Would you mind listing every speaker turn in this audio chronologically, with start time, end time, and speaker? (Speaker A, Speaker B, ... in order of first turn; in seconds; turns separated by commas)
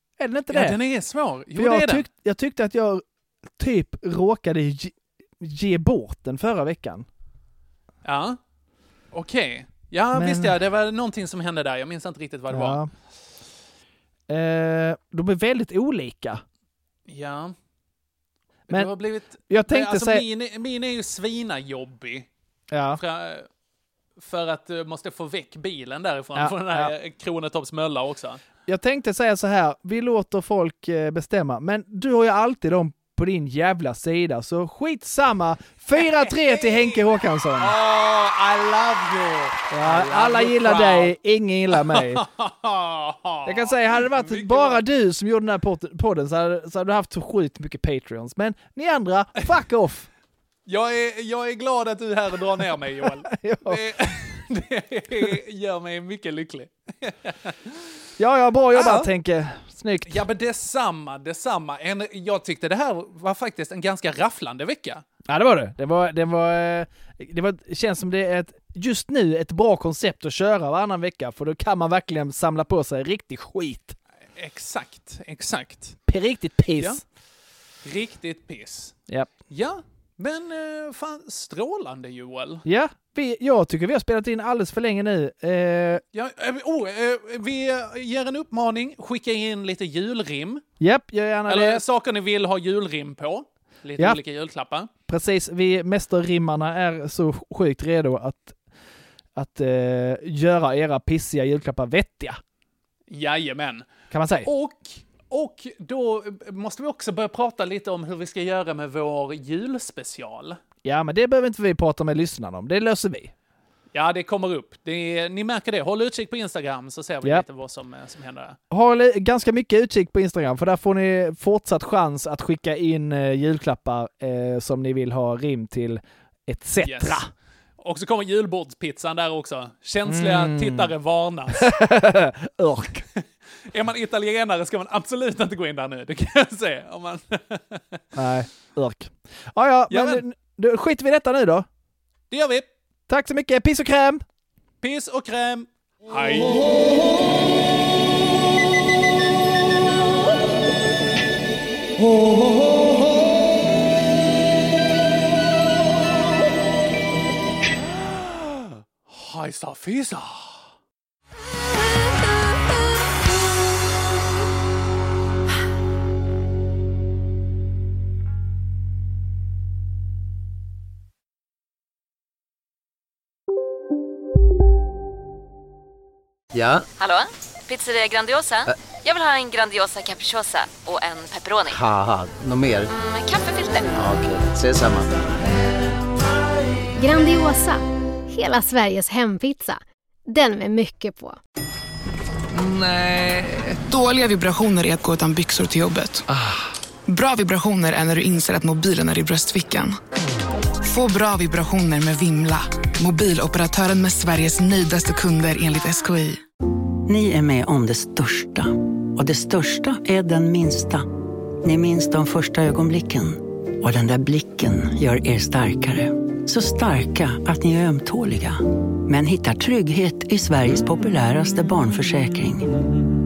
Speaker A: 0.2-0.8, Speaker B: 0.5-2.0, Speaker A: 1.5-3.0, Speaker A: 3.5-7.1, Speaker B: 8.0-8.4, Speaker B: 9.1-12.8, Speaker A: 10.1-10.5, Speaker A: 12.5-12.9, Speaker A: 14.3-16.4, Speaker B: 17.1-17.6, Speaker A: 18.7-20.2, Speaker B: 18.7-22.3, Speaker A: 22.7-23.0, Speaker B: 22.9-23.5, Speaker B: 24.2-28.4, Speaker A: 26.4-26.9, Speaker A: 28.7-37.8, Speaker B: 36.0-37.0, Speaker B: 37.6-41.2, Speaker A: 39.7-42.2, Speaker B: 41.7-44.8, Speaker A: 43.5-50.1, Speaker B: 50.7-57.9, Speaker A: 53.0-53.8, Speaker A: 58.2-60.2, Speaker B: 58.7-59.1, Speaker B: 60.0-65.0, Speaker A: 65.3-74.0, Speaker B: 74.4-76.0, Speaker A: 76.1-77.0, Speaker B: 77.8-79.0, Speaker B: 79.5-82.7, Speaker A: 82.7-86.0, Speaker B: 86.1-90.6, Speaker A: 90.8-91.8, Speaker B: 91.5-94.9, Speaker A: 95.1-98.6, Speaker A: 99.3-102.4, Speaker B: 103.1-110.6, Speaker A: 104.1-104.5, Speaker A: 110.8-113.3, Speaker B: 113.9-118.6, Speaker A: 118.7-127.3, Speaker B: 126.8-127.2, Speaker B: 127.8-131.7, Speaker A: 130.1-130.9, Speaker A: 131.6-133.1, Speaker B: 133.2-138.0, Speaker A: 138.2-141.7, Speaker B: 139.9-140.2, Speaker B: 142.3-142.7, Speaker A: 143.1-144.2, Speaker B: 144.8-146.8, Speaker B: 158.2-160.7, Speaker C: 176.5-176.9, Speaker D: 177.0-181.6, Speaker C: 181.7-182.9, Speaker D: 183.1-183.8, Speaker C: 183.9-185.1, Speaker E: 187.0-191.4, Speaker F: 192.5-196.3, Speaker F: 197.1-200.0, Speaker F: 200.8-206.4, Speaker G: 207.1-211.1, Speaker G: 211.6-222.7